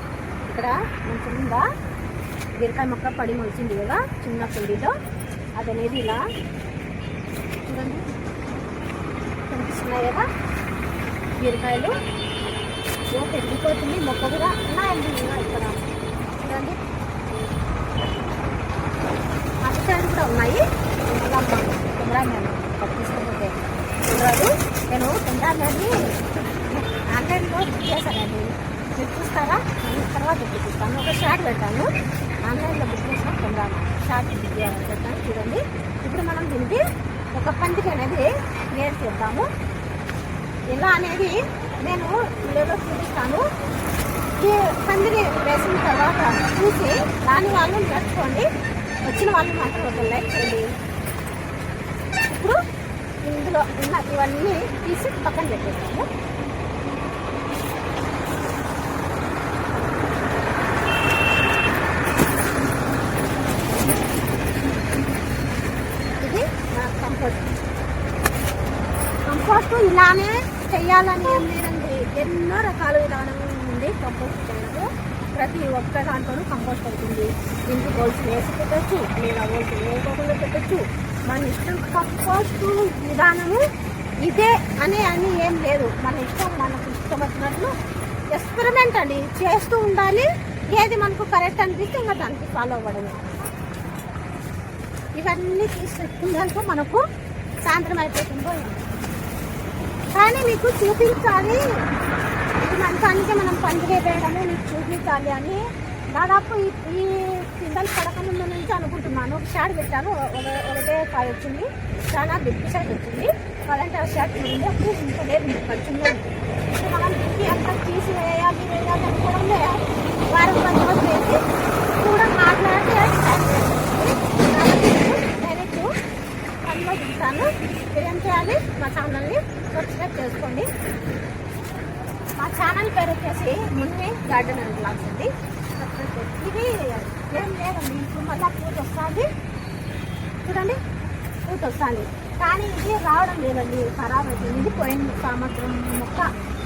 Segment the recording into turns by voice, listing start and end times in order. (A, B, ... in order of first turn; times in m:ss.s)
0:00.4-0:01.6 A
0:02.6-0:04.9 A
0:05.6-0:06.2 A
0:07.6-0:08.2 A
0:09.5-0:10.3 A
0:11.4-0:12.0 A
0:13.1-0:15.8 A
0:16.3-0:16.8 A
0:19.6-0:25.9 A
0:26.6-0:31.9 A
0:32.4-0:39.5 A
0:40.7-0:43.5 A
0:44.4-0:48.5 A
0:49.0-0:50.7 A
0:52.3-0:52.6 A
0:53.2-0:56.0 A
1:06.2-1:07.5 A
1:09.3-1:23.6 A
1:24.2-1:27.7 A
1:28.3-1:33.5 A
1:35.2-1:37.0 A
1:37.6-1:38.8 A
1:40.1-1:41.7 A
1:42.6-2:01.4 A
2:02.0-2:05.9 A
2:06.6-2:10.7 A
2:12.4-2:19.3 A
2:20.4-2:20.8 A
2:21.5-2:26.3 A